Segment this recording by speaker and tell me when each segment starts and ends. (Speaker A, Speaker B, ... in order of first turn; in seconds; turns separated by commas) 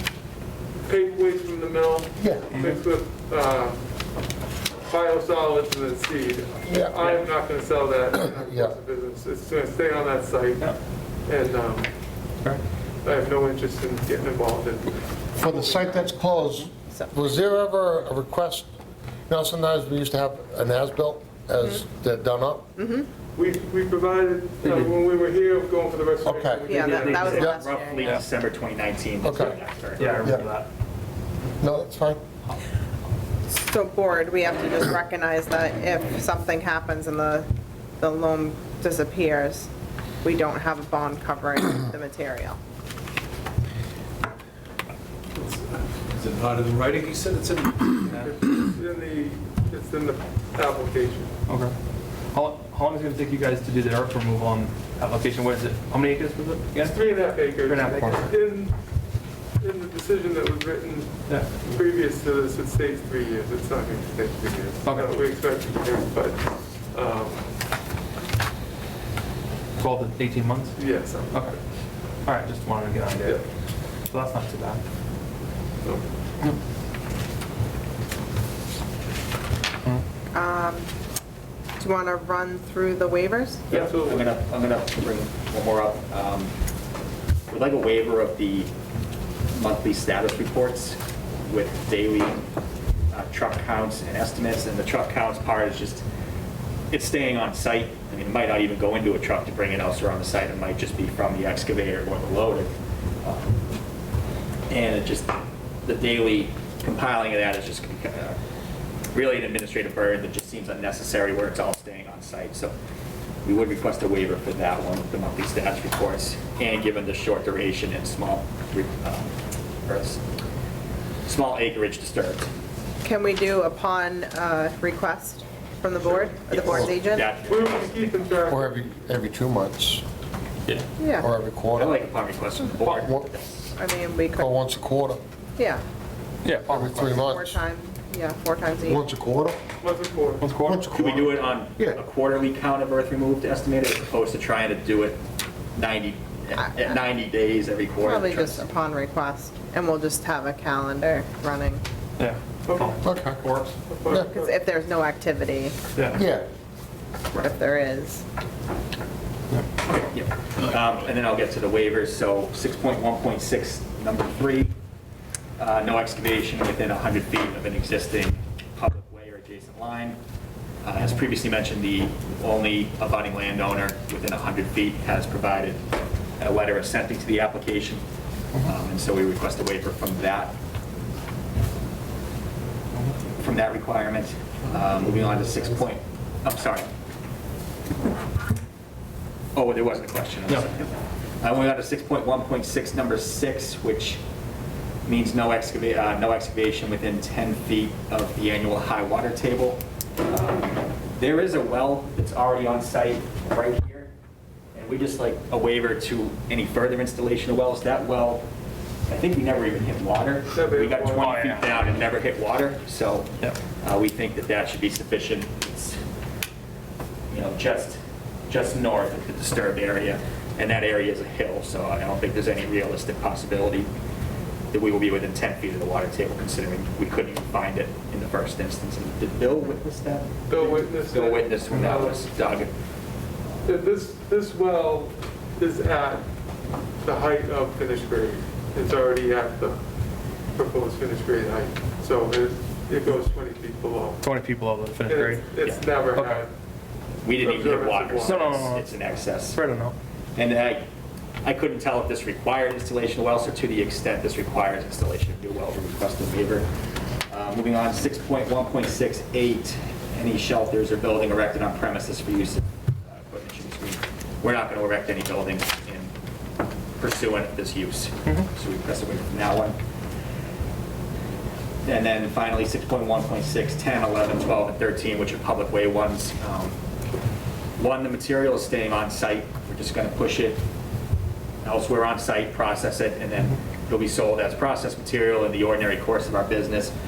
Speaker A: 0.8-3.8, Speaker B: 2.2-2.6, Speaker A: 4.8-11.9, Speaker B: 6.7-7.0, Speaker B: 8.1-8.8, Speaker A: 13.0-16.2, Speaker B: 15.4-18.7, Speaker B: 19.3-22.7, Speaker C: 22.8-23.1, Speaker A: 23.3-27.5, Speaker D: 24.6-24.9, Speaker B: 26.2-27.6, Speaker C: 26.7-28.2, Speaker D: 26.9-27.4, Speaker E: 27.1-30.4, Speaker B: 29.2-29.6, Speaker D: 30.0-30.7, Speaker B: 30.2-30.4, Speaker B: 31.6-32.2, Speaker C: 33.5-37.5, Speaker C: 38.0-39.7, Speaker C: 40.2-42.6, Speaker F: 45.4-48.1, Speaker A: 48.0-51.3, Speaker D: 51.5-51.7, Speaker D: 52.3-56.9, Speaker A: 56.7-58.7, Speaker D: 57.6-58.3, Speaker A: 59.6-67.5, Speaker D: 61.3-61.6, Speaker D: 64.8-65.2, Speaker D: 69.8-71.6, Speaker A: 70.8-71.6, Speaker D: 72.2-73.4, Speaker D: 74.1-74.8, Speaker C: 80.3-80.9, Speaker C: 81.8-83.7, Speaker A: 83.7-84.3, Speaker E: 83.7-86.5, Speaker E: 87.5-88.7, Speaker E: 89.5-92.5, Speaker E: 93.1-96.0, Speaker E: 96.9-102.7, Speaker E: 103.2-103.6, Speaker E: 104.7-108.4, Speaker E: 109.1-112.7, Speaker E: 113.4-120.2, Speaker E: 121.2-122.5, Speaker C: 123.0-127.3, Speaker E: 126.0-128.2, Speaker A: 127.5-128.8, Speaker B: 128.5-130.0, Speaker C: 131.0-131.3, Speaker B: 131.2-132.0, Speaker E: 131.7-133.7, Speaker B: 132.8-133.2, Speaker C: 133.8-134.6, Speaker B: 134.4-135.2, Speaker C: 135.6-135.8, Speaker D: 136.4-137.1, Speaker B: 136.7-137.6, Speaker C: 137.0-139.0, Speaker B: 138.8-139.6, Speaker A: 139.8-140.4, Speaker D: 140.4-140.8, Speaker B: 140.6-142.0, Speaker E: 140.9-145.2, Speaker E: 145.7-148.6, Speaker C: 146.6-147.0, Speaker C: 148.0-151.8, Speaker D: 152.2-153.7, Speaker A: 152.7-153.0, Speaker B: 153.0-153.5, Speaker A: 153.9-154.5, Speaker C: 154.2-155.8, Speaker B: 156.1-156.4, Speaker C: 157.4-158.2, Speaker E: 159.9-164.7, Speaker E: 165.6-170.2, Speaker E: 170.8-175.8, Speaker E: 176.4-178.0, Speaker E: 178.6-180.5, Speaker E: 183.4-186.9, Speaker E: 189.5-194.2, Speaker E: 195.0-204.1, Speaker E: 204.7-208.4, Speaker E: 209.1-216.0, Speaker A: 210.5-211.4, Speaker D: 211.1-211.8, Speaker E: 217.3-223.9, Speaker E: 224.7-232.7, Speaker A: 230.5-232.2, Speaker D: 231.7-232.0, Speaker A: 233.6-236.2, Speaker A: 237.0-239.8, Speaker A: 240.5-244.3, Speaker D: 244.2-245.5, Speaker A: 245.1-246.5, Speaker E: 245.6-245.9, Speaker D: 246.1-246.4, Speaker E: 247.2-249.6, Speaker A: 247.4-248.4, Speaker D: 248.2-248.9, Speaker D: 249.5-249.9, Speaker E: 250.3-250.8, Speaker E: 251.4-256.7, Speaker E: 257.3-266.1, Speaker E: 267.0-269.8, Speaker E: 271.8-276.7, Speaker E: 277.8-280.6, Speaker E: 281.6-286.9